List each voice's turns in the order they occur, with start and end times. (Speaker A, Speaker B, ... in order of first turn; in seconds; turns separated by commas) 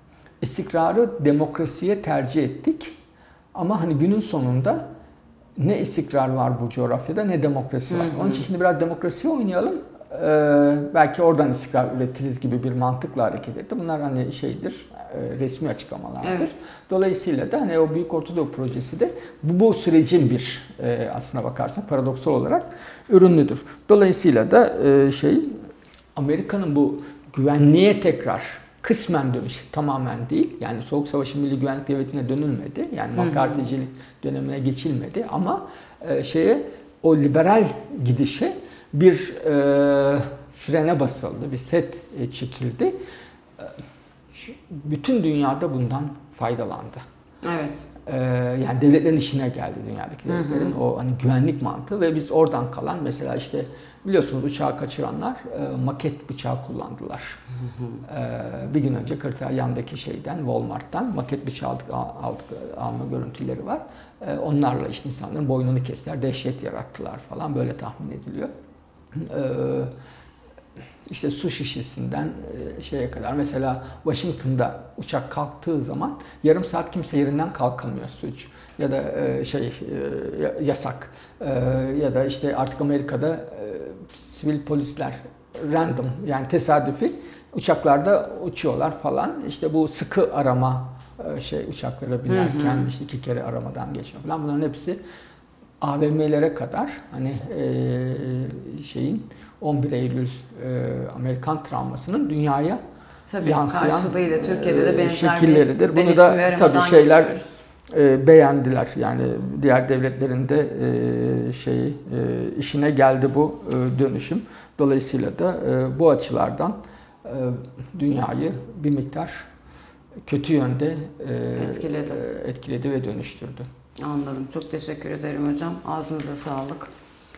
Speaker A: 0.4-3.0, Speaker A: 3.5-4.8, Speaker A: 5.6-25.5, Speaker B: 7.9-8.4, Speaker B: 16.2-16.6, Speaker A: 26.1-43.0, Speaker B: 33.2-33.7, Speaker A: 44.3-47.0, Speaker B: 47.4-47.9, Speaker A: 48.1-57.4, Speaker B: 50.3-50.8, Speaker A: 58.1-68.5, Speaker A: 69.1-69.9, Speaker A: 71.1-95.0, Speaker B: 92.3-92.9, Speaker A: 95.8-102.8, Speaker B: 103.3-107.5, Speaker A: 103.4-119.5, Speaker A: 120.3-123.7, Speaker B: 121.5-122.2, Speaker B: 124.0-126.9